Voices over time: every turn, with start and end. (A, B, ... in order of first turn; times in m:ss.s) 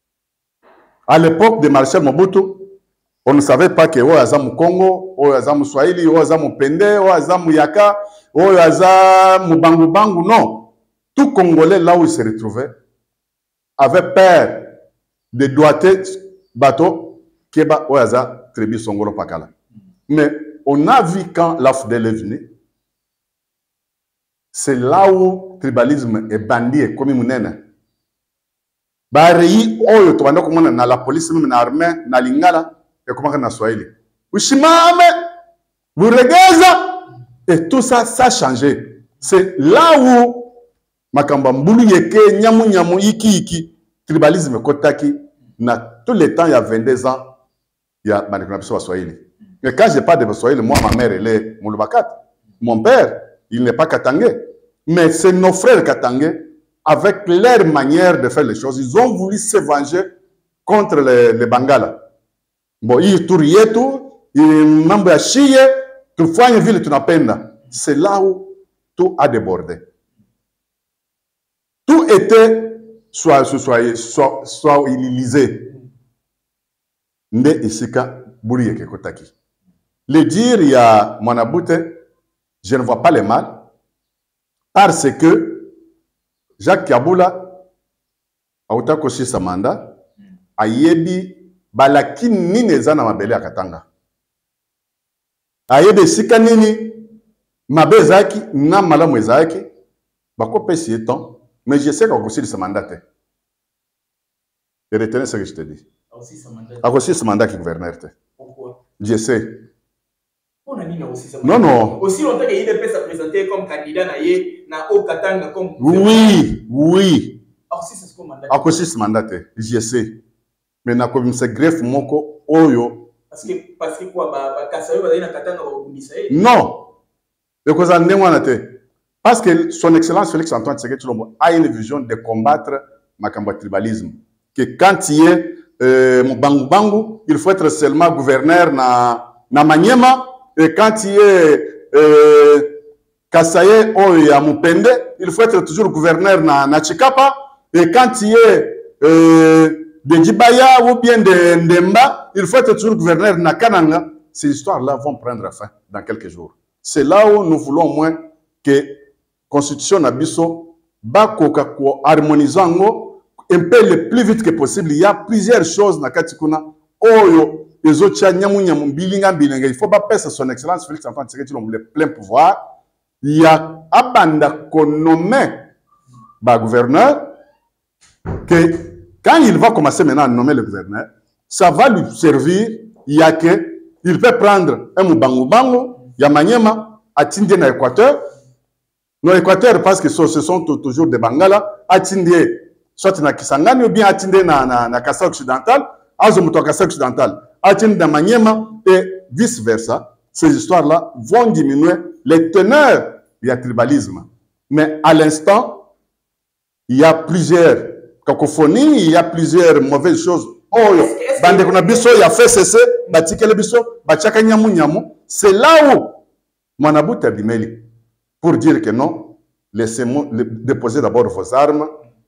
0:01.1-0:02.7 A
0:03.2-0:12.7 A
0:13.8-0:14.7 A
0:15.3-0:19.5 A
0:20.1-0:22.5 A
0:24.5-0:27.6 A
0:29.1-0:35.2 A
0:36.0-0:40.5 A
0:41.1-0:47.3 A
0:48.0-1:00.1 A
1:00.6-1:02.0 A
1:02.8-1:09.9 A
1:11.8-1:15.7 A
1:17.3-1:19.3 A
1:20.1-1:22.0 A
1:22.6-1:23.6 A
1:24.7-1:25.7 A
1:26.6-1:27.6 A
1:28.7-1:29.9 A
1:30.6-1:33.8 A
1:35.7-1:37.1 A
1:37.7-1:39.7 A
1:40.4-1:43.0 A
1:44.9-1:45.8 A
1:46.1-1:47.0 B
1:46.8-1:48.1 A
1:48.4-1:48.8 B
1:49.0-1:49.6 A
1:50.6-1:56.4 B
1:51.4-1:52.0 A
1:55.8-1:57.4 A
1:57.7-1:58.8 B
1:58.5-2:00.2 A
2:00.8-2:03.1 A
2:03.3-2:06.4 B
2:06.3-2:06.9 A
2:07.6-2:22.7 A
2:23.3-2:52.6 A
2:53.2-2:55.7 A
2:56.4-2:57.3 A
2:58.4-3:08.2 A
3:09.2-3:25.9 A
3:26.9-3:36.2 A
3:30.7-3:32.3 B
3:36.8-3:37.8 A
3:38.4-3:41.9 A